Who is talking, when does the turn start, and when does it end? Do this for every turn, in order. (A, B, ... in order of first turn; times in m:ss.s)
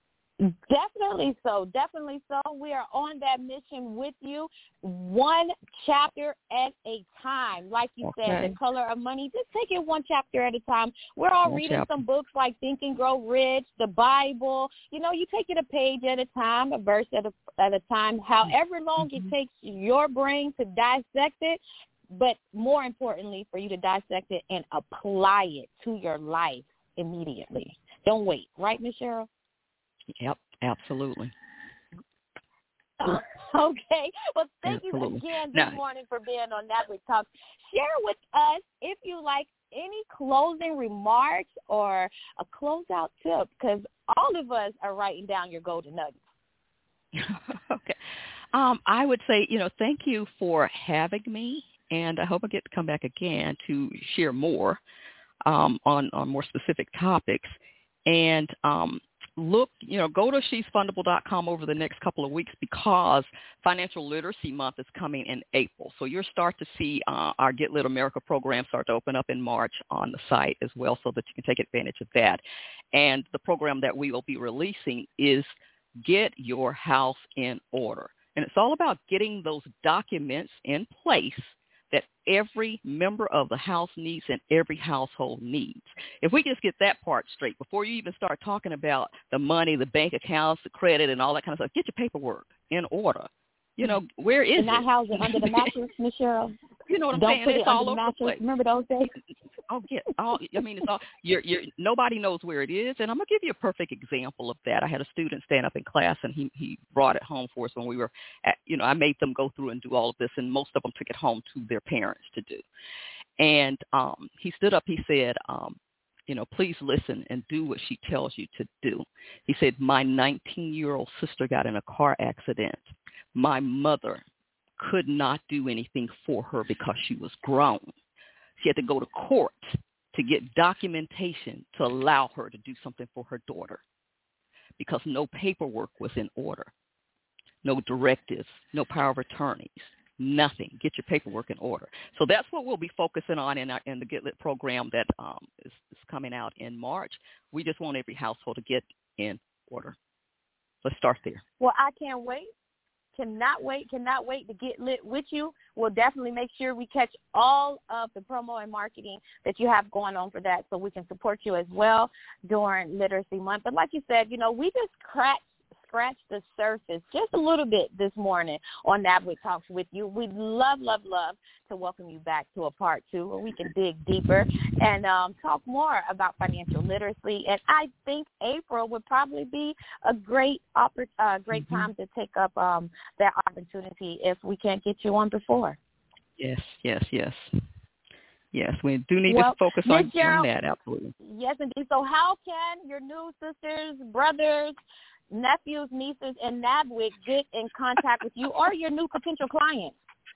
0:00.4-0:21.6 A
0:08.0-0:08.5 B
0:11.5-0:12.0 B
0:19.0-0:19.3 B
0:22.1-0:29.3 A
0:30.2-0:31.3 B
0:33.0-0:46.2 A
0:34.7-0:35.8 B
0:47.1-0:48.0 B
0:48.5-0:54.8 B
0:55.5-1:12.4 B
1:12.9-1:15.5 B
1:16.0-1:35.7 B
1:34.6-1:36.6 A
1:36.9-1:38.4 B
1:37.1-1:39.2 A
1:39.7-1:52.6 B
1:53.4-1:55.8 B
1:56.3-2:02.8 B
2:03.4-2:04.2 B
2:04.8-2:07.9 B
2:08.6-2:13.8 B
2:14.8-2:16.7 B
2:17.6-2:30.0 B
2:30.8-2:31.4 B
2:31.6-2:32.5 A
2:33.2-3:05.8 A
3:01.5-3:01.9 B
3:06.4-3:07.5 B
3:08.5-3:11.1 B
3:09.3-3:10.5 A
3:11.2-3:14.8 A
3:15.3-3:20.0 A